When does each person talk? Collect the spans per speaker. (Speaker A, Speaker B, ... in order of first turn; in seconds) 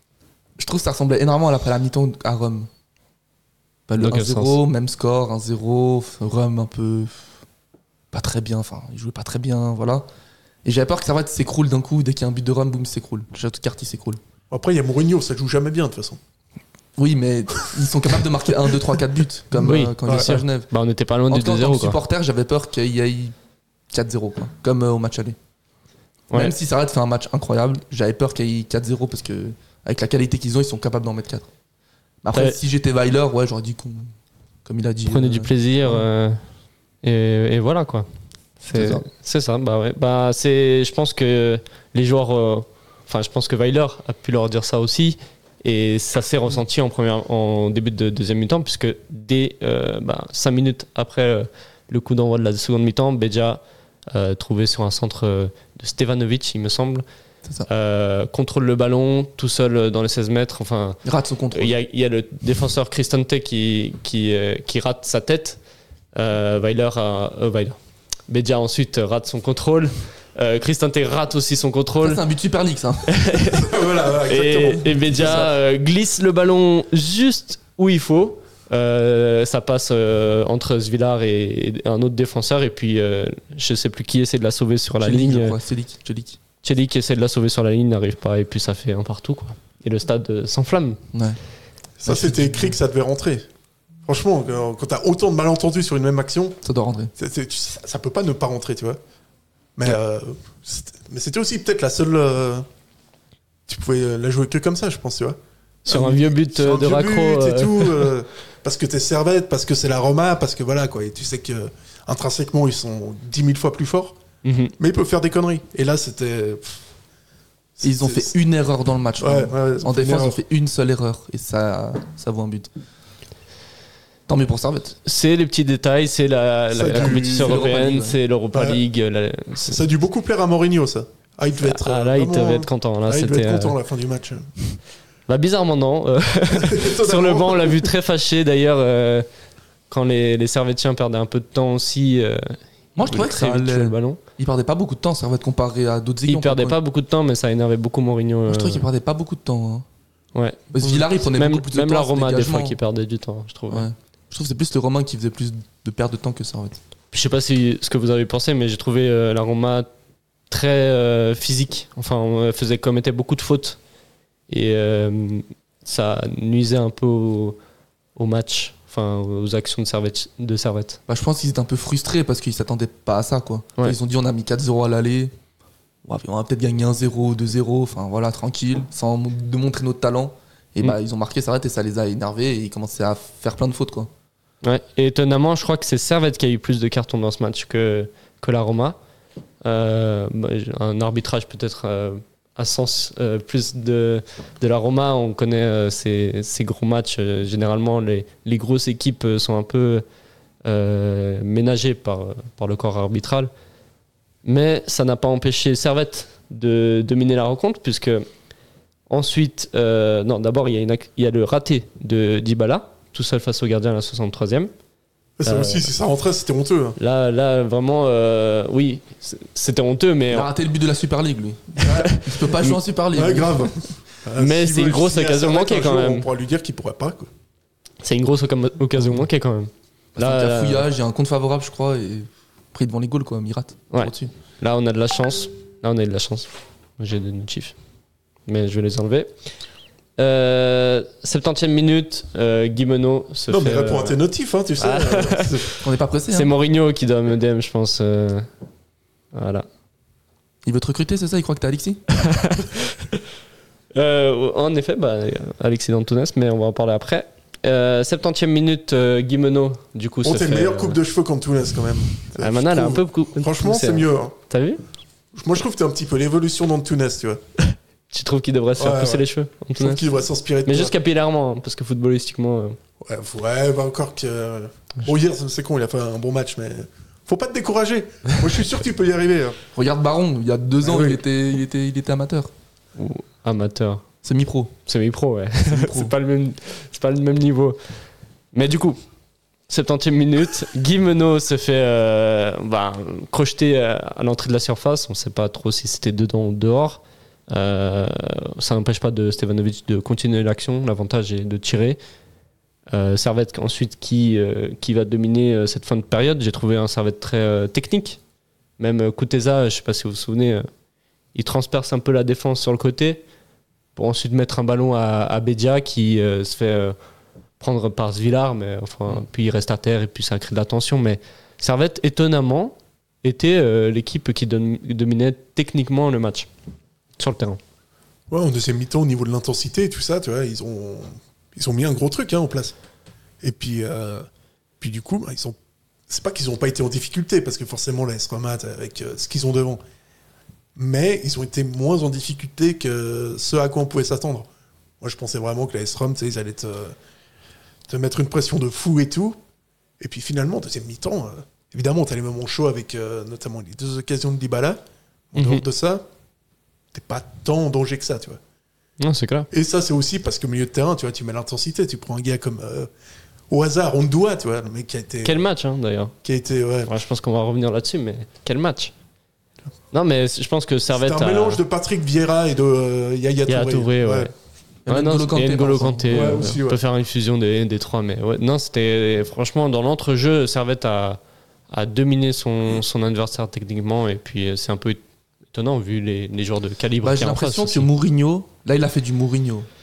Speaker A: 0.6-2.7, 3.9-7.3, 8.1-10.1, 10.7-14.2, 17.0-20.7, 21.3-23.4, 23.9-25.4, 26.3-31.5, 32.2-34.1, 34.6-36.0, 38.7-39.0, 61.0-61.8, 72.0-73.3, 75.1-75.5, 85.0-86.4, 91.1-91.4, 92.0-92.8, 96.6-97.1, 117.8-122.7, 124.3-125.0, 126.9-128.2, 143.0-146.8, 148.5-149.9, 150.7-152.8, 153.7-156.8, 171.1-175.3, 176.1-184.1, 220.3-223.7, 230.2-234.3, 245.8-246.5, 250.7-252.0, 279.7-282.5, 284.2-284.7, 285.7-286.1, 374.9-376.5, 387.0-389.7
Speaker B: 4.0-4.6, 19.6-22.0, 35.1-36.4, 37.0-38.1, 38.6-57.0, 57.7-61.0, 61.5-65.6, 66.2-72.2, 73.1-85.6, 86.6-91.0, 105.9-108.1, 114.4-114.7, 125.0-129.8, 131.6-133.8, 135.3-139.3, 139.9-144.2, 146.3-148.9, 150.3-153.9, 157.1-159.9, 160.5-163.8, 164.5-167.6, 168.2-171.0, 184.6-189.0, 189.6-200.1, 200.7-203.5, 204.4-208.3, 209.1-214.7, 215.4-215.9, 217.0-220.5, 222.0-222.8, 224.4-226.3, 228.0-230.9, 233.9-237.8, 238.5-239.3, 240.2-244.2, 244.8-245.7, 246.3-248.5, 249.3-249.7, 252.3-252.8, 253.9-261.0, 262.4-264.8, 267.6-270.0, 270.7-272.8, 283.0-284.0, 284.9-287.8, 288.5-289.0, 289.7-302.0, 302.9-308.2, 308.8-310.7, 311.4-313.2, 314.0-316.9, 317.6-326.5, 327.2-327.6, 355.4-355.6, 359.0-359.5, 365.2-366.1, 366.9-368.9, 369.9-371.6, 373.5-374.3, 374.9-385.0, 385.5-387.9
Speaker C: 14.5-16.2, 20.1-20.3, 73.5-75.4, 92.0-93.5, 94.1-96.6, 97.2-99.0, 99.8-102.7, 103.7-114.2, 114.8-116.8, 117.8-118.3, 119.2-120.4, 126.8-127.7, 128.5-128.8, 129.7-134.5, 136.5-137.9, 215.4-217.0, 221.8-222.2, 223.1-227.3, 243.5-245.7, 260.2-264.4, 265.3-267.4, 268.8-270.9, 273.0-279.6, 280.8-281.2, 328.3-332.8, 333.4-334.3, 334.8-335.6, 336.1-339.8, 340.8-344.5, 345.0-347.0, 347.9-349.4, 350.0-354.8, 355.3-356.1, 356.9-358.4, 359.5-362.9, 363.5-365.4, 366.2-366.9, 370.9-374.3, 376.1-376.8